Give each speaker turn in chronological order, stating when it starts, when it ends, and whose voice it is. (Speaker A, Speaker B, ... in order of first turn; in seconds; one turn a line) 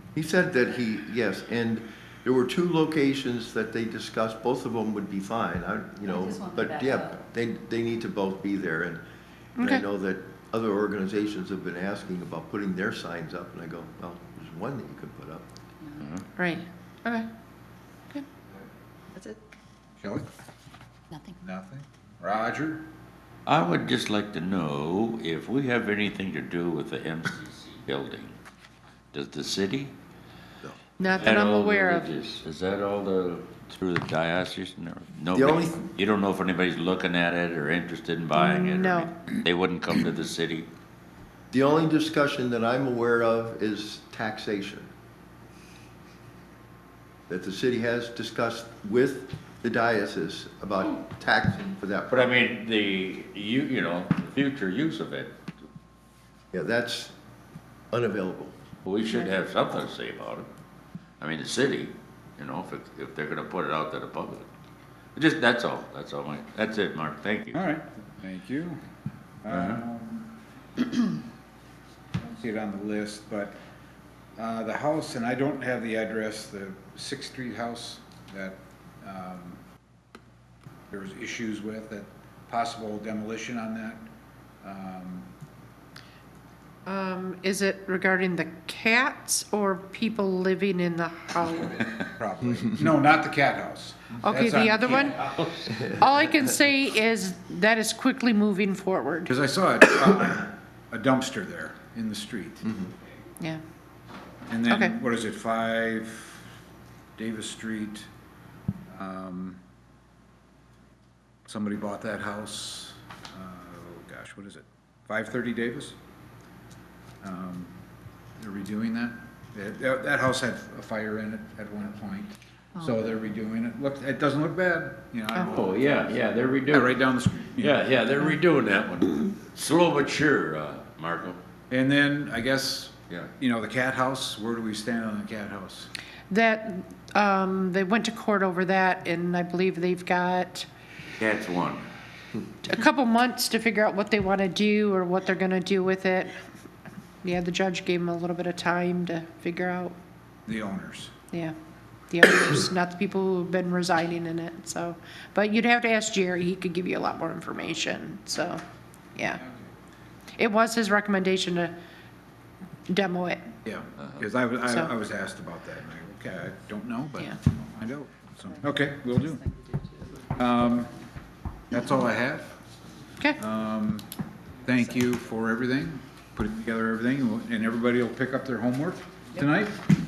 Speaker A: 0.1-9.0
Speaker B: 6.0-7.2
Speaker C: 9.6-9.8
Speaker A: 9.6-15.5
Speaker B: 15.8-16.1
Speaker D: 16.0-16.3
Speaker C: 16.4-17.2
Speaker B: 19.1-19.4
Speaker E: 20.0-20.3
Speaker E: 21.4-22.8
Speaker D: 23.4-28.4
Speaker D: 29.1-29.9
Speaker C: 31.0-32.1
Speaker D: 31.1-40.7
Speaker A: 35.3-35.9
Speaker C: 38.3-39.1
Speaker A: 41.5-44.9
Speaker A: 47.3-52.3
Speaker D: 52.1-55.4
Speaker A: 56.5-57.1
Speaker A: 57.9-58.5
Speaker D: 58.8-60.5
Speaker D: 61.2-64.5
Speaker D: 65.1-67.6
Speaker E: 67.5-68.8
Speaker E: 69.4-70.3
Speaker D: 69.5-69.8
Speaker E: 72.2-73.5
Speaker E: 74.4-79.6
Speaker E: 80.9-84.0
Speaker E: 84.6-85.3
Speaker C: 86.8-92.0
Speaker E: 92.1-95.4
Speaker C: 94.2-95.3
Speaker C: 95.8-99.3
Speaker E: 99.3-102.7
Speaker E: 104.5-106.4
Speaker C: 104.7-104.9
Speaker E: 107.2-108.1
Speaker E: 108.9-109.6
Speaker E: 111.5-116.0
Speaker E: 117.2-117.7
Speaker E: 118.4-126.2
Speaker D: 125.5-127.0
Speaker E: 126.7-127.8
Speaker D: 127.6-131.4
Speaker E: 131.7-135.9
Speaker C: 136.3-140.7
Speaker D: 141.2-141.8
Speaker C: 142.6-146.4
Speaker C: 147.2-149.9
Speaker E: 150.5-151.1
Speaker C: 152.1-158.6
Speaker C: 159.2-159.4
Speaker C: 160.4-161.7
Speaker C: 162.9-163.4
Speaker E: 163.6-169.4
Speaker C: 164.7-164.9
Speaker B: 168.5-170.3
Speaker E: 170.3-170.9
Speaker E: 171.7-172.5
Speaker E: 173.3-174.1
Speaker E: 174.6-179.8